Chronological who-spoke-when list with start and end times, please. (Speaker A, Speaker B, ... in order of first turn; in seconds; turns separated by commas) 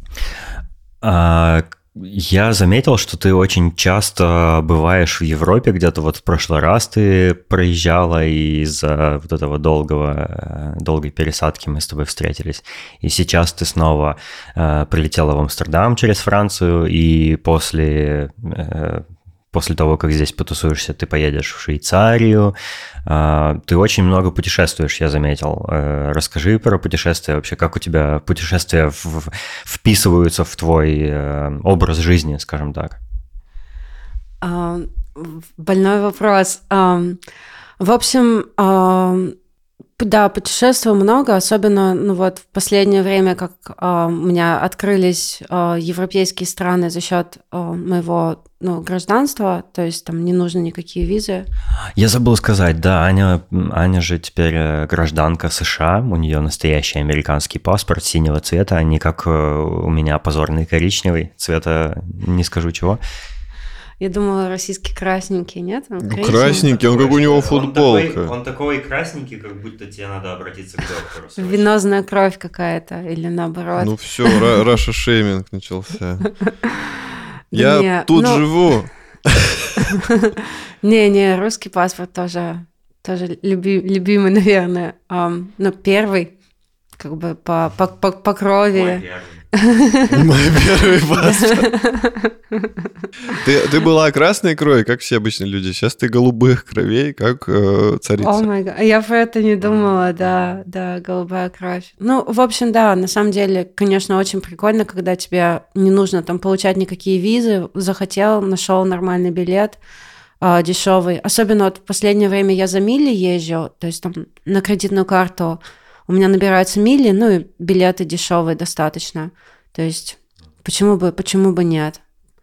Speaker A: 1.0-33.0, Speaker B: 34.4-37.2, Speaker B: 37.8-39.3, Speaker B: 40.0-51.5, Speaker A: 52.0-63.0, Speaker B: 64.0-66.7, Speaker C: 66.0-68.3, Speaker A: 66.3-71.6, Speaker B: 71.4-74.4, Speaker C: 73.8-76.3, Speaker B: 77.5-78.7, Speaker C: 77.5-79.9, Speaker B: 80.0-86.3, Speaker B: 87.0-90.2, Speaker A: 88.7-89.4, Speaker C: 90.1-91.7, Speaker B: 91.2-92.9, Speaker C: 93.3-98.5, Speaker B: 98.2-109.8, Speaker B: 110.4-122.0